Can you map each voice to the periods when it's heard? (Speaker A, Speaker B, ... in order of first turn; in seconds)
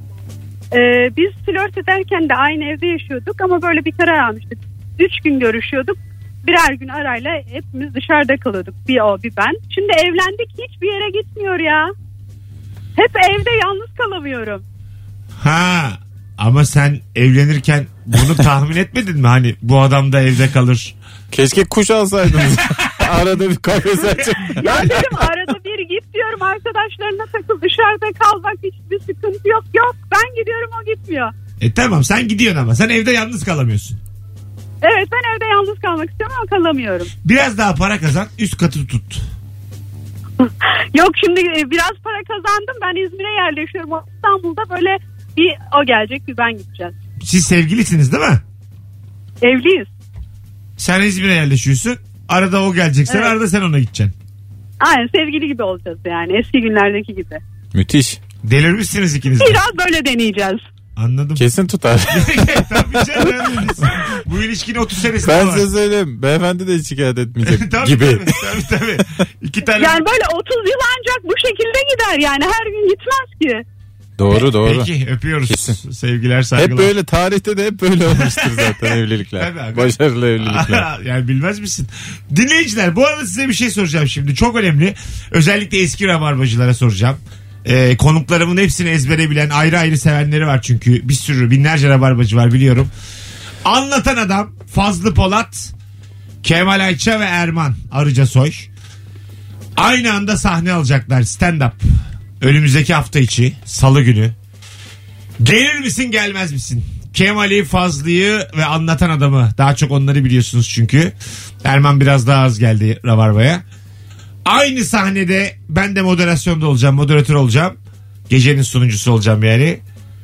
Speaker A: 0.7-11.9, 12.9-14.6, 24.6-31.3, 34.8-37.1, 40.4-46.9, 49.4-49.9, 53.1-53.3, 54.8-57.4, 59.4-60.6, 69.8-73.6
Speaker B: 15.4-20.9, 24.6-25.0, 31.6-34.0, 37.2-39.2, 47.2-48.4, 50.8-54.1, 58.4-59.6, 61.0-61.5, 62.1-65.7, 67.4-70.0, 74.3-76.9, 78.1-92.9, 93.6-95.7, 96.4-98.7, 99.8-101.8, 102.4-104.3, 105.4-113.6, 114.5-117.8, 118.3-119.8
Speaker C: 21.3-25.2, 57.7-58.2, 61.4-62.6, 65.2-68.4, 74.2-74.9, 75.5-75.8, 76.5-80.9